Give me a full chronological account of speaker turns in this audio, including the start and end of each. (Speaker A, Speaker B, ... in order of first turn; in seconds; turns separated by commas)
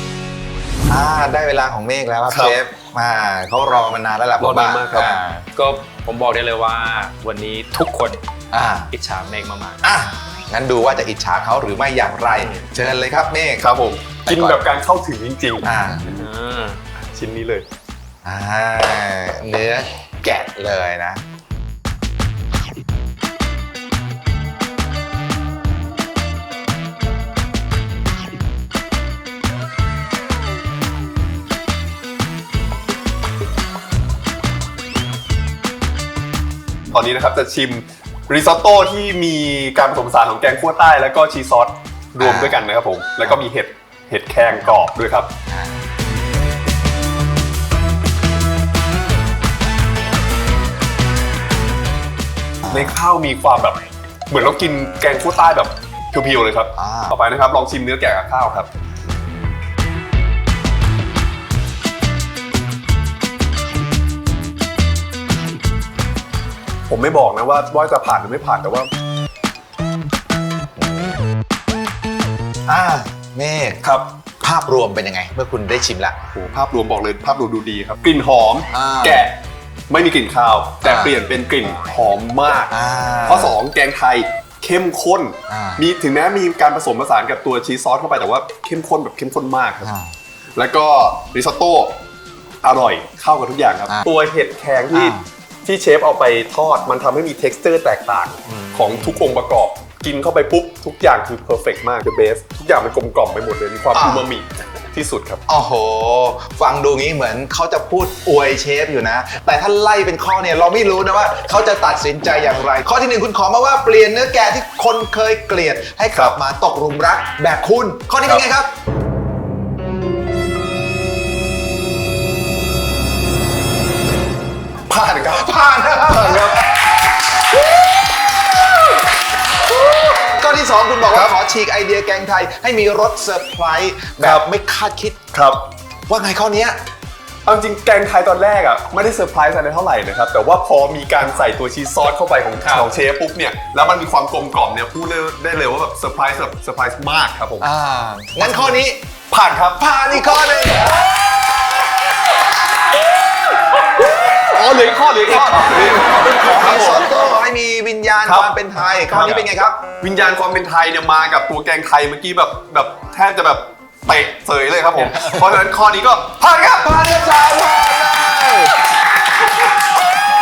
Speaker A: 0.9-5.5, Speaker B: 2.3-2.6, Speaker B: 4.4-5.2, Speaker C: 5.5-8.2, Speaker A: 8.5-8.9, Speaker C: 8.9-9.8, Speaker A: 9.8-13.7, Speaker B: 13.6-15.7, Speaker A: 14.2-14.6, Speaker A: 15.6-16.1, Speaker C: 16.1-16.8, Speaker B: 16.9-17.6, Speaker A: 18.2-21.2, Speaker B: 36.9-45.3, Speaker A: 42.2-42.7, Speaker A: 45.5-45.8, Speaker A: 52.6-52.9, Speaker B: 52.7-58.7, Speaker A: 56.8-57.2, Speaker B: 66.9-68.9, Speaker A: 72.7-73.8, Speaker B: 73.8-74.1, Speaker A: 74.4-76.2, Speaker B: 76.3-82.7, Speaker A: 78.7-79.2, Speaker A: 80.8-81.1, Speaker A: 82.7-83.6, Speaker B: 83.2-89.9, Speaker A: 85.5-85.8, Speaker A: 89.8-90.1, Speaker B: 90.5-92.0, Speaker B: 92.6-105.4, Speaker A: 94.9-95.2, Speaker A: 103.9-104.3, Speaker A: 105.5-118.7, Speaker B: 124.9-126.7, Speaker A: 125.3-126.9, Speaker A: 129.8-135.2, Speaker B: 129.9-130.2, Speaker B: 135.3-135.7, Speaker A: 136.1-136.8, Speaker B: 137.4-147.7, Speaker C: 142.6-142.9, Speaker A: 147.6-149.0, Speaker B: 148.4-148.8, Speaker B: 149.3-151.8, Speaker A: 149.8-151.0, Speaker B: 153.5-157.2, Speaker A: 155.2-159.8, Speaker B: 158.2-158.5, Speaker B: 159.1-166.5, Speaker C: 165.0-165.2, Speaker A: 166.4-169.5